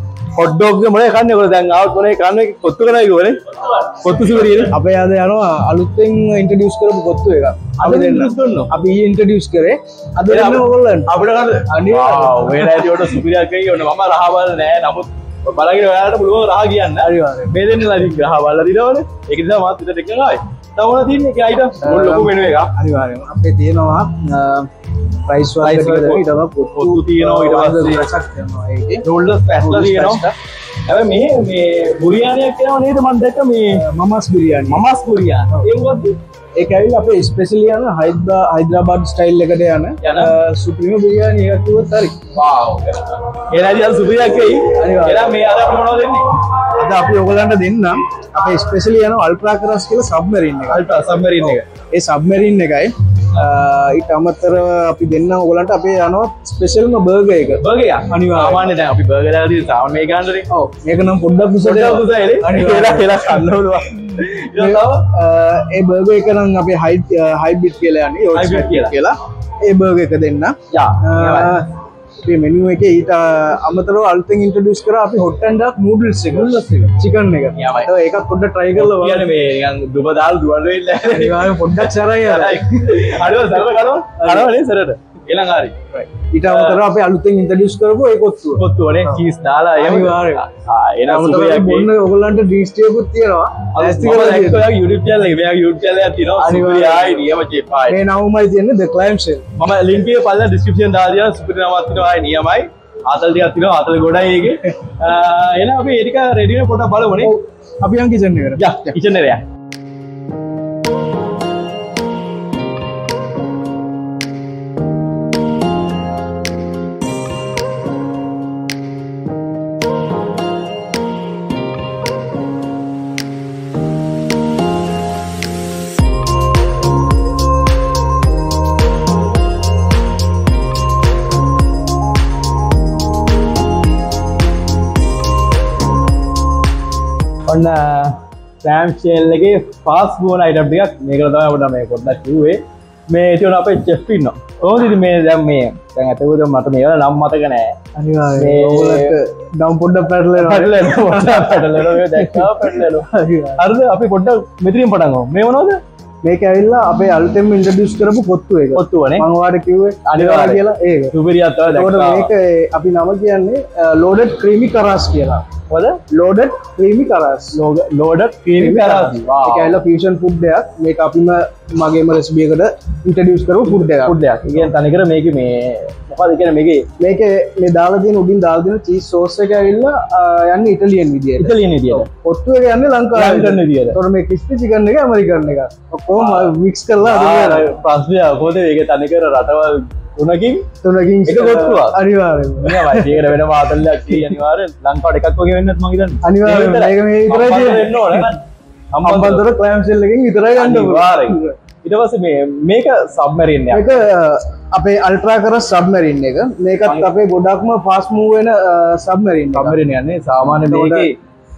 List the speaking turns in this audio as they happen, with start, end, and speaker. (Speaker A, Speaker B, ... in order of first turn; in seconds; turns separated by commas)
Speaker A: 0.3-4.8, Speaker B: 4.6-11.1, Speaker A: 7.8-8.7, Speaker A: 10.3-22.7, Speaker B: 11.7-13.2, Speaker B: 17.0-17.6, Speaker B: 21.8-24.7, Speaker B: 25.3-29.1, Speaker A: 25.6-26.2, Speaker A: 26.8-28.1, Speaker A: 29.0-30.3, Speaker B: 29.6-30.3, Speaker A: 30.9-33.8, Speaker B: 33.8-34.8, Speaker A: 34.7-36.2, Speaker B: 36.6-42.2, Speaker A: 40.0-40.4, Speaker A: 42.3-46.4, Speaker B: 44.7-45.4, Speaker B: 46.8-50.9, Speaker A: 50.7-51.7, Speaker B: 51.4-58.7, Speaker A: 57.6-60.5, Speaker B: 60.5-63.6, Speaker A: 61.6-65.1, Speaker B: 64.5-71.7, Speaker A: 68.3-69.0, Speaker A: 70.7-71.6, Speaker B: 72.2-79.3, Speaker A: 76.3-77.0, Speaker A: 77.5-77.9, Speaker A: 78.8-85.8, Speaker B: 81.0-83.0, Speaker B: 84.2-84.6, Speaker B: 85.9-89.1, Speaker A: 86.4-86.8, Speaker A: 88.6-91.9, Speaker B: 89.8-90.5, Speaker B: 91.1-94.7, Speaker A: 93.7-98.0, Speaker B: 96.4-97.3, Speaker B: 97.9-99.4, Speaker A: 99.6-107.3, Speaker B: 107.2-108.9, Speaker A: 108.6-109.4, Speaker A: 137.5-147.8, Speaker B: 148.0-153.6, Speaker A: 148.3-149.2, Speaker A: 150.4-155.8, Speaker B: 156.2-161.2, Speaker A: 158.7-159.3, Speaker A: 160.1-162.3, Speaker B: 161.7-165.4, Speaker A: 165.7-166.0, Speaker B: 166.1-167.6, Speaker A: 167.5-169.8, Speaker B: 168.6-174.2, Speaker A: 173.6-176.9, Speaker B: 177.0-187.7, Speaker A: 181.4-182.1, Speaker A: 183.1-184.0, Speaker A: 186.1-190.7, Speaker B: 190.8-193.4, Speaker A: 191.3-192.0, Speaker A: 192.6-198.4, Speaker B: 196.2-198.3, Speaker A: 198.9-199.5, Speaker B: 199.0-201.6, Speaker A: 200.5-203.9, Speaker B: 203.7-209.8, Speaker A: 206.8-207.1, Speaker A: 209.5-211.1, Speaker B: 210.6-211.1